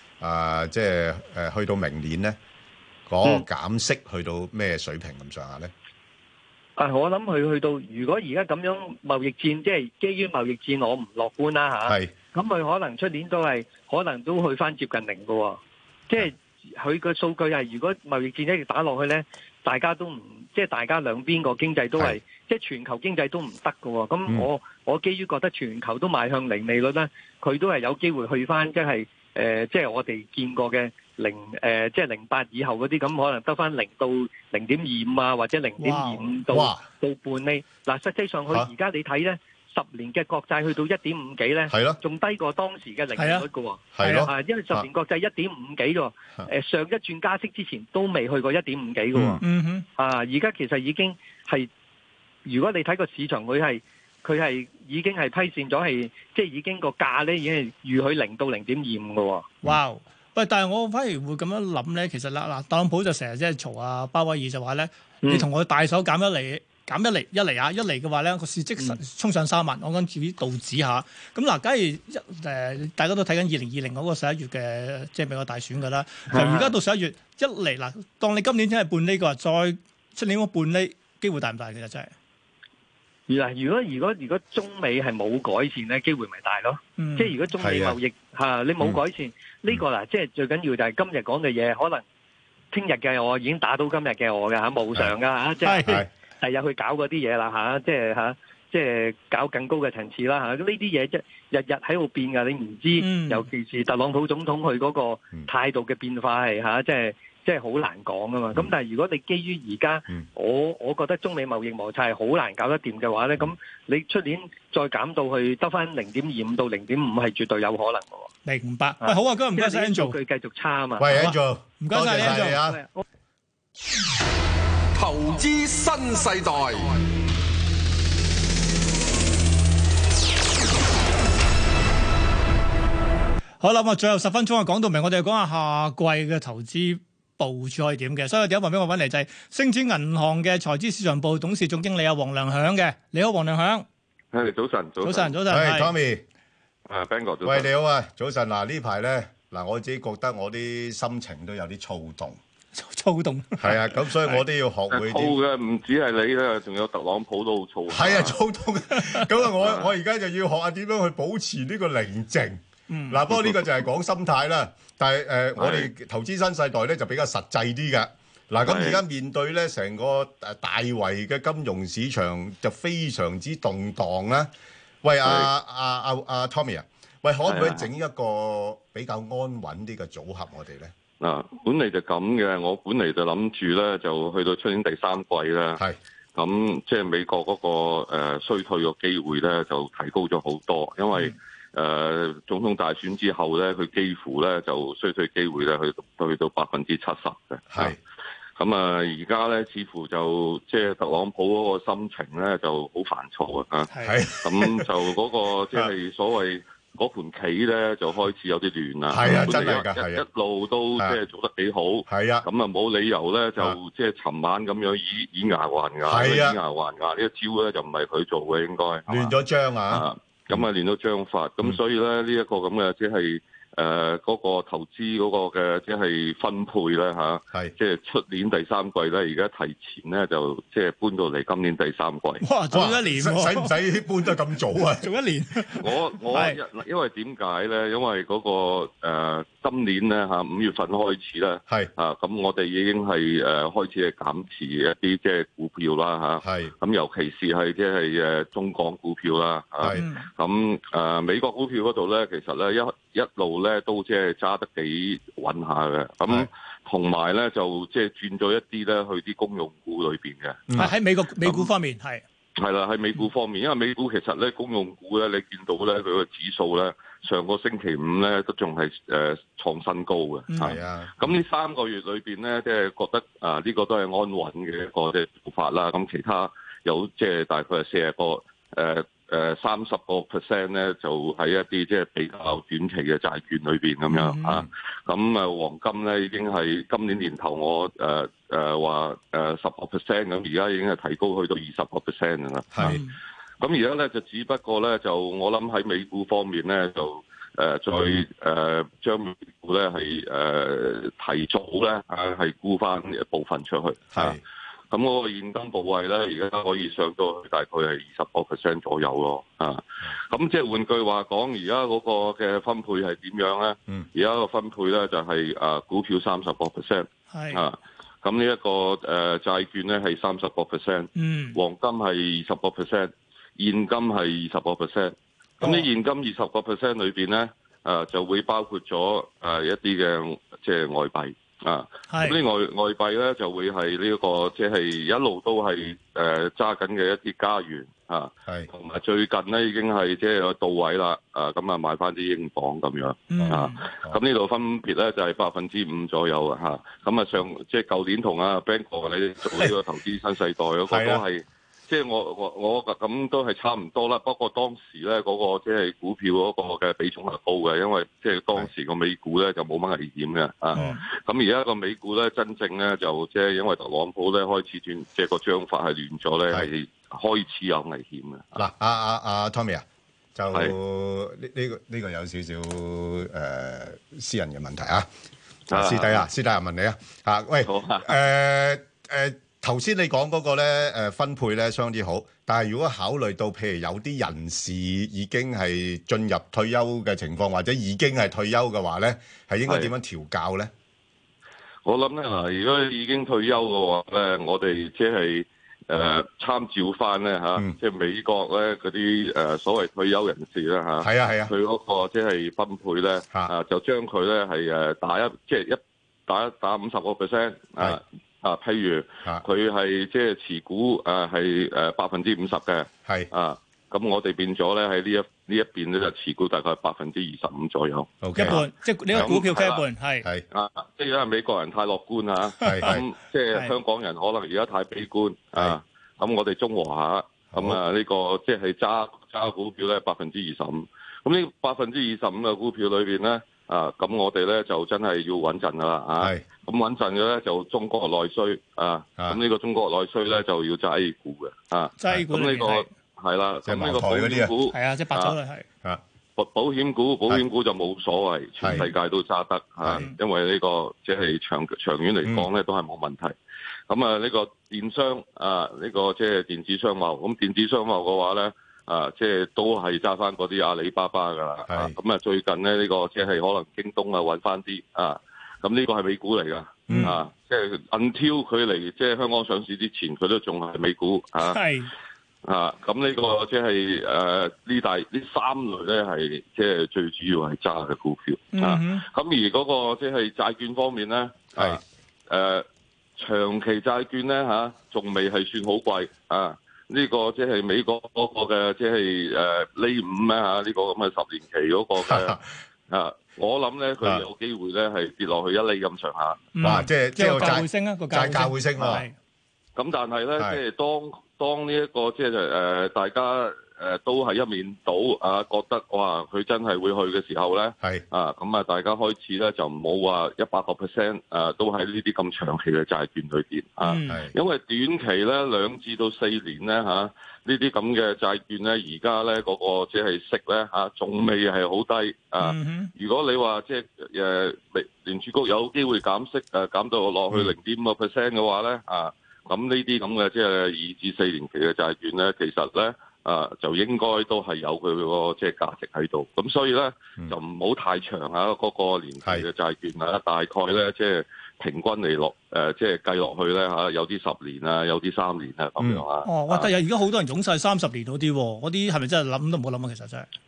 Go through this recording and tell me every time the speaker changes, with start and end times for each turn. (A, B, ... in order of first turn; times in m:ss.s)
0:00.2-0:02.4 A
0:03.1-0:05.7 A
0:06.8-0:15.6 B
0:11.8-0:12.1 A
0:16.1-0:49.4 B
0:35.8-0:36.3 C
0:36.5-0:36.8 A
0:41.7-0:42.0 A
0:43.2-0:43.5 C
0:43.9-0:44.8 A
0:44.0-0:44.3 C
0:49.2-0:49.4 A
0:49.4-0:49.8 C
0:50.0-0:51.7 B
0:52.5-0:59.5 B
0:59.6-1:22.1 C
1:16.3-1:16.8 B
1:23.3-1:32.0 B
1:27.0-1:27.3 C
1:27.6-1:28.0 A
1:32.7-1:35.9 B
1:35.6-1:36.0 C
1:35.8-1:36.1 A
1:36.4-1:58.3 B
1:43.0-1:43.5 C
1:58.5-2:00.2 C
1:59.0-2:01.2 B
2:01.0-2:02.8 A
2:01.1-2:02.6 C
2:02.3-2:03.0 B
2:05.0-2:07.0 D
2:13.6-2:23.9 C
2:24.3-2:25.4 E
2:25.0-2:25.9 C
2:25.5-2:26.2 A
2:26.9-2:27.7 E
2:27.4-2:32.4 A
2:32.8-2:33.8 C
2:33.6-2:35.4 A
2:34.9-2:38.4 E
2:37.9-2:54.5 A
2:39.6-2:39.9 E
2:42.9-2:43.2 C
2:45.6-2:45.9 E
2:48.6-2:49.0 E
2:55.0-3:00.9 A
2:55.2-2:55.5 E
2:57.4-2:57.9 E
3:01.2-3:05.8 E
3:06.4-3:18.0 E
3:17.7-3:18.0 A
3:18.6-3:23.9 E
3:23.9-3:24.2 C
3:24.0-3:24.9 A
3:24.4-3:39.4 E
3:29.1-3:30.2 A
3:29.2-3:29.6 C
3:32.1-3:32.5 A
3:36.0-3:36.6 A
3:39.1-3:40.6 A
3:39.9-3:52.4 E
3:52.4-3:53.8 C
3:52.7-3:55.1 A
3:54.9-3:56.6 C
3:55.8-4:20.8 E
4:06.4-4:06.7 A
4:09.9-4:10.3 C
4:20.7-4:21.0 A
4:20.8-4:22.2 C
4:21.4-4:21.7 E
4:22.6-4:53.0 E
4:30.5-4:30.8 C
4:30.6-4:31.2 A
4:44.1-4:44.7 C
4:52.7-4:53.0 A
4:52.8-4:53.2 C
4:53.6-5:04.4 E
5:04.1-5:04.4 A
5:04.9-6:08.6 E
5:17.3-5:17.6 C
5:21.2-5:21.6 C
5:25.6-5:25.9 C
5:32.1-5:32.4 C
5:43.3-5:43.8 C
5:43.4-5:44.2 A
5:50.9-5:51.2 A
6:00.7-6:01.0 C
6:08.6-6:09.8 A
6:10.4-6:15.1 A
6:15.7-6:30.7 A
6:15.7-6:16.3 E
6:17.6-6:18.2 E
6:29.7-6:29.9 E
6:31.8-6:58.6 E
6:41.0-6:41.5 A
6:53.0-6:53.3 A
6:58.2-6:59.4 A
6:58.3-7:00.3 C
6:59.1-6:59.8 E
7:00.5-7:25.4 E
7:02.6-7:03.0 A
7:02.6-7:02.9 C
7:07.5-7:07.8 A
7:16.2-7:16.4 A
7:22.0-7:22.9 C
7:23.6-7:24.6 A
7:24.7-7:25.7 C
7:26.4-7:33.4 E
7:28.6-7:28.9 A
7:29.8-7:30.1 A
7:32.2-7:32.5 A
7:33.9-7:51.6 E
7:41.7-7:42.0 A
7:46.9-7:47.2 A
7:46.9-7:47.2 C
7:51.4-7:51.9 C
7:52.4-8:02.7 E
7:58.5-7:59.0 C
8:01.6-8:01.8 A
8:03.2-8:12.4 E
8:12.0-8:12.4 A
8:12.9-8:16.6 E
8:16.6-8:19.2 C
8:16.6-8:19.1 A
8:19.8-9:06.7 E
8:33.8-8:34.3 C
8:42.4-8:42.9 C
9:05.8-9:06.0 A
9:06.2-9:10.3 C